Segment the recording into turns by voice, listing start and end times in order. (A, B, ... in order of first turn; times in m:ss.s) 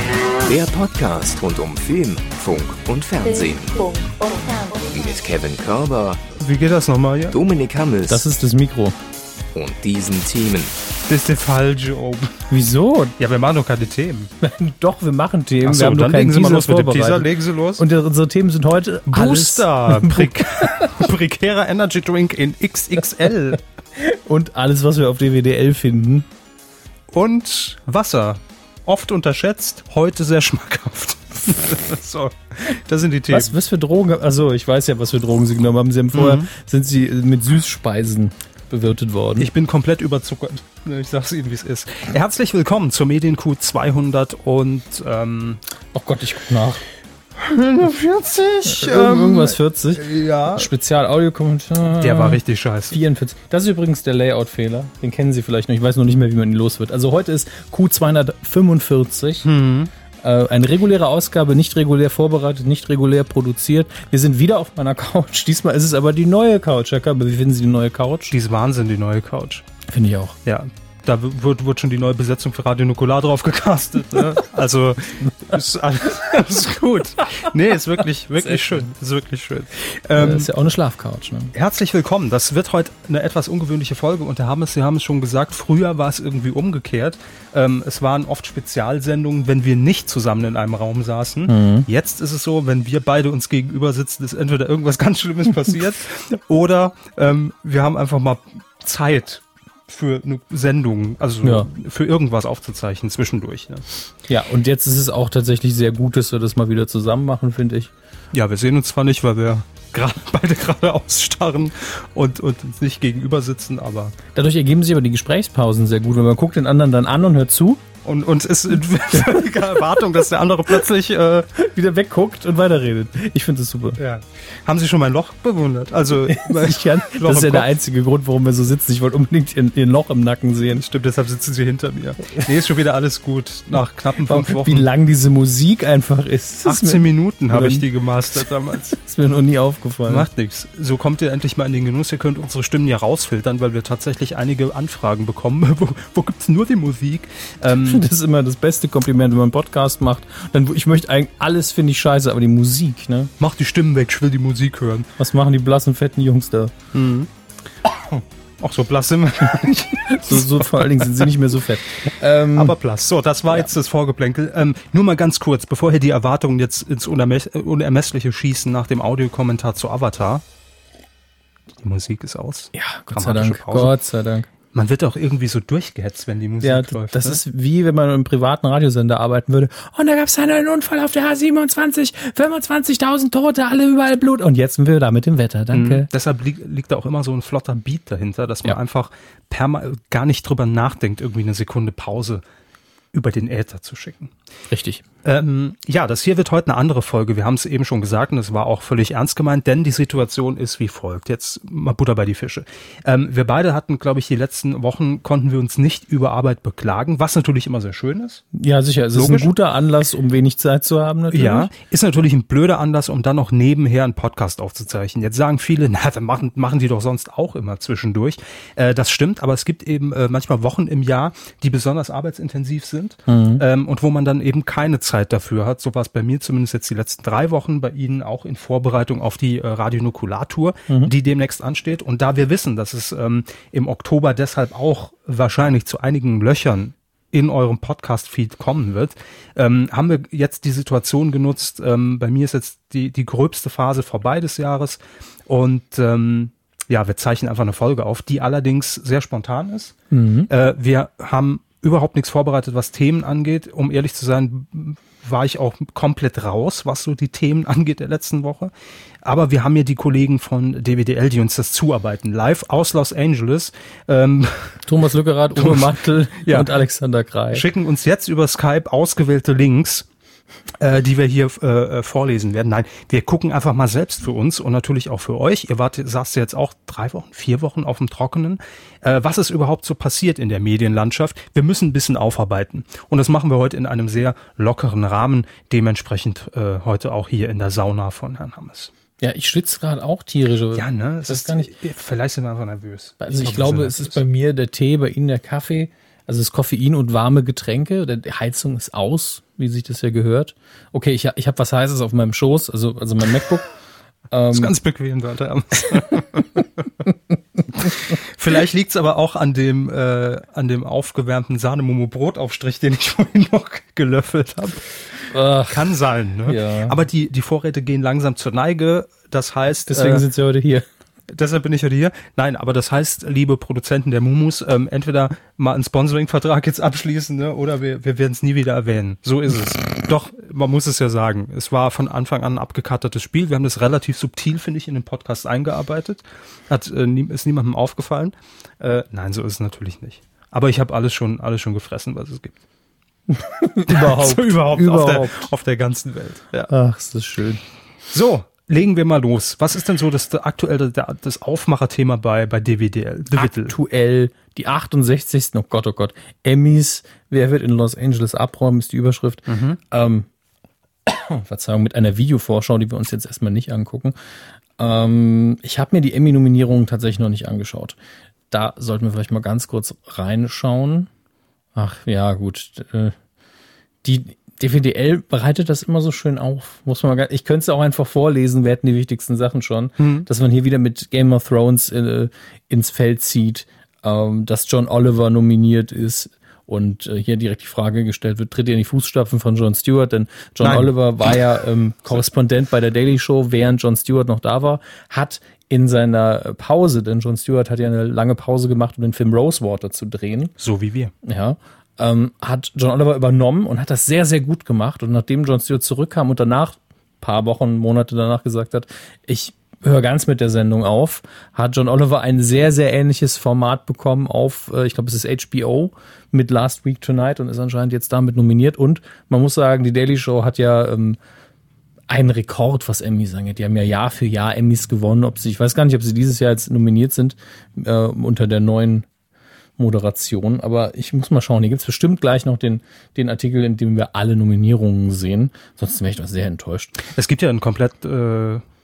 0:00.4-0:03.9 A
0:03.2-0:05.2 B
0:04.9-0:06.2 A
0:06.4-0:07.4 C
0:07.3-0:08.2 A
0:08.1-0:09.0 D
0:09.5-0:10.7 A
0:11.1-0:12.4 C
0:12.5-0:13.2 D
0:13.2-0:14.3 C
0:14.4-0:20.9 D
0:15.6-0:17.8 C
0:19.1-0:23.6 C
0:24.0-0:26.2 D
0:27.1-0:33.5 C
0:33.3-0:39.5 D
0:36.1-0:36.5 C
0:39.4-0:45.6 C
0:45.9-0:46.8 D
0:47.4-0:50.7 C
0:48.6-0:59.5 D
0:52.0-0:53.0 C
0:59.4-0:59.9 C
1:00.2-1:08.3 D
1:08.3-1:09.6 C
1:09.9-1:10.4 D
1:10.4-1:20.5 C
1:20.1-1:21.5 D
1:21.5-1:43.8 C
1:31.5-1:31.9 D
1:41.4-1:41.7 D
1:44.3-1:47.9 D
1:48.3-1:54.2 C
1:54.3-1:57.8 D
1:58.0-2:01.5 C
2:01.5-2:04.0 D
2:04.0-2:07.7 C
2:06.3-2:10.8 D
2:10.8-2:14.9 C
2:14.2-2:17.9 D
2:16.6-2:19.0 C
2:18.9-2:20.3 D
2:20.1-2:28.0 C
2:27.8-2:33.3 D
2:33.4-2:35.1 C
2:35.2-2:36.7 D
2:36.9-2:37.3 C
2:37.8-2:41.3 C
2:40.0-2:42.8 D
2:42.5-2:50.4 C
2:51.8-2:53.9 C
2:52.7-2:54.5 D
2:54.7-2:57.4 C
2:56.6-3:06.1 D
3:05.7-3:12.4 C
3:13.1-3:14.3 C
3:14.7-3:15.0 D
3:15.2-3:28.4 C
3:28.5-3:31.7 D
3:29.1-3:29.5 C
3:31.3-4:09.9 C
3:43.3-3:43.6 D
4:10.1-4:10.5 D
4:10.5-4:24.8 C
4:24.8-4:27.6 D
4:25.6-4:26.7 C
4:27.5-4:30.1 C
4:30.8-4:48.9 C
4:49.2-4:51.7 D
4:50.7-4:54.2 C
4:53.2-5:03.7 D
5:04.3-5:04.7 D
5:04.5-5:06.8 C
5:07.7-5:14.8 C
5:15.3-5:17.0 D
5:15.7-5:20.2 C
5:19.9-5:20.8 D
5:21.3-5:42.6 C
5:43.3-5:45.5 D
5:43.9-5:46.7 C
5:46.7-5:47.6 D
5:48.1-5:53.7 C
5:53.3-6:00.3 D
5:59.5-5:59.8 C
6:01.0-6:04.1 D
6:04.8-6:08.0 D
6:08.5-6:11.1 D
6:11.7-6:13.2 D
6:14.0-6:40.5 D
6:20.0-6:20.2 C
6:30.6-6:30.9 C
6:40.6-6:41.1 C
6:41.2-7:01.2 D
7:02.1-7:09.0 D
7:09.8-7:17.0 D
7:17.0-7:18.6 C